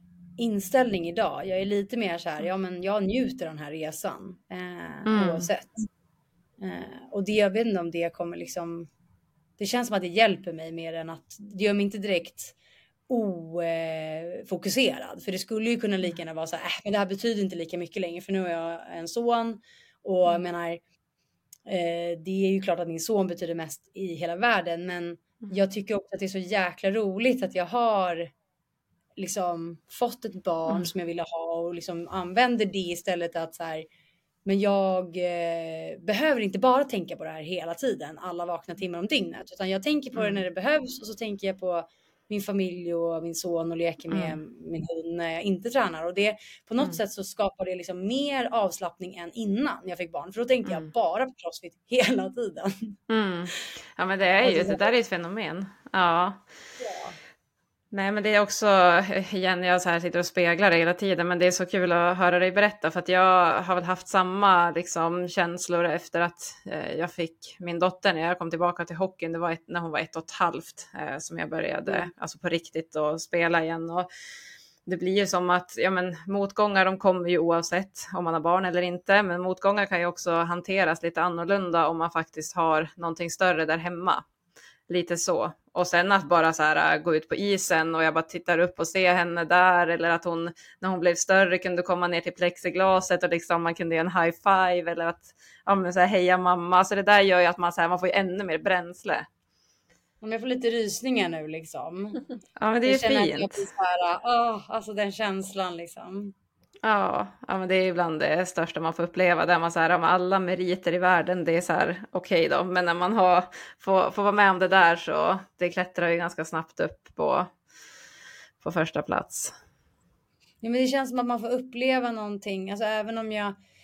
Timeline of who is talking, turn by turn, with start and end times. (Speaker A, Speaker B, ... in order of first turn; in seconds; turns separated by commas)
Speaker A: 0.4-5.9, Speaker B: 5.0-5.5, Speaker A: 6.6-8.9, Speaker A: 9.6-12.5, Speaker A: 13.1-20.8, Speaker A: 21.7-28.3, Speaker A: 29.2-33.9, Speaker A: 34.4-53.0, Speaker B: 40.1-40.4, Speaker B: 44.1-44.4, Speaker B: 53.1-56.4, Speaker A: 54.4-54.9, Speaker A: 56.8-57.2, Speaker B: 57.9-74.1, Speaker B: 74.8-84.2, Speaker B: 84.9-99.3, Speaker A: 100.2-102.2, Speaker B: 102.6-103.6, Speaker A: 102.8-106.3, Speaker B: 106.8-117.5, Speaker B: 118.6-119.5, Speaker A: 120.6-123.6